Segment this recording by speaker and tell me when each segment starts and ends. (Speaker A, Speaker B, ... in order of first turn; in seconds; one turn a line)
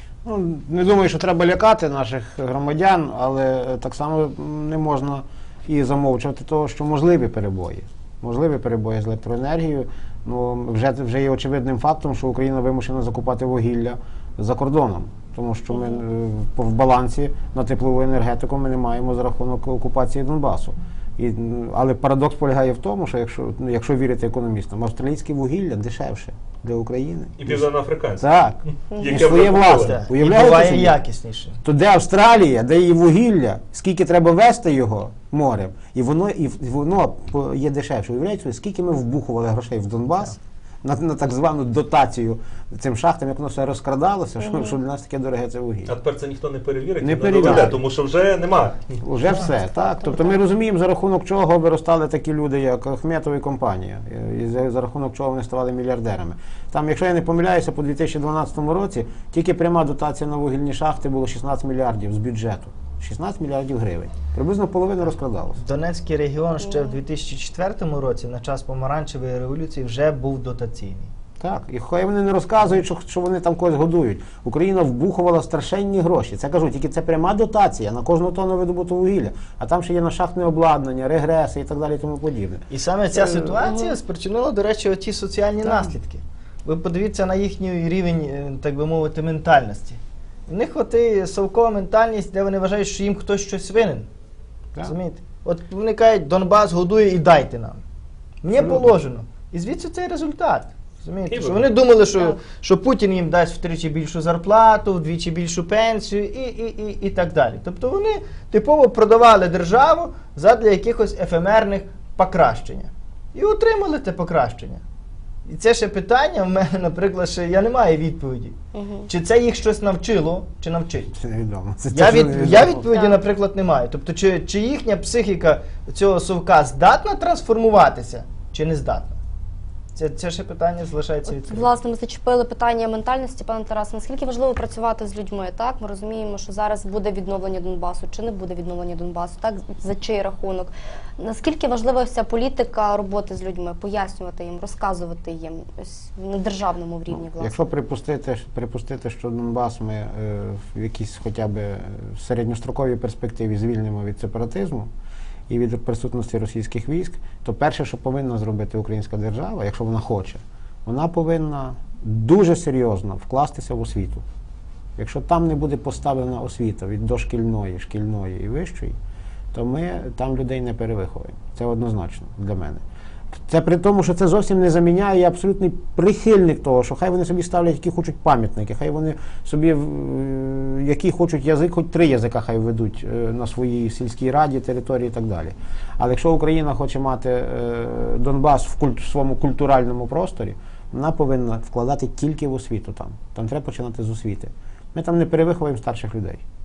Speaker A: 0.2-31.0
Speaker B: 15.7-16.0
Speaker C: 27.4-28.3
Speaker C: 28.9-30.0
Speaker D: 29.1-31.6
Speaker A: 31.6-45.9
Speaker B: 44.4-44.8
Speaker C: 45.9-49.0
Speaker A: 47.0-47.8
Speaker A: 49.0-65.6
Speaker B: 49.7-50.4
Speaker D: 65.6-71.1
Speaker A: 71.4-83.6
Speaker D: 82.7-94.1
Speaker B: 83.6-84.0
Speaker D: 94.8-97.8
Speaker D: 98.4-114.8
Speaker A: 98.5-98.9
Speaker C: 101.3-101.7
Speaker D: 115.5-118.6
Speaker B: 118.7-119.1
Speaker D: 119.1-121.1
Speaker A: 121.1-122.9
Speaker D: 121.9-129.2
Speaker B: 122.9-123.2
Speaker D: 129.9-131.7
Speaker B: 131.3-147.6
Speaker A: 147.3-154.9
Speaker A: 155.5-164.2
Speaker A: 165.0-168.9
Speaker A: 169.5-172.8
Speaker A: 173.3-196.4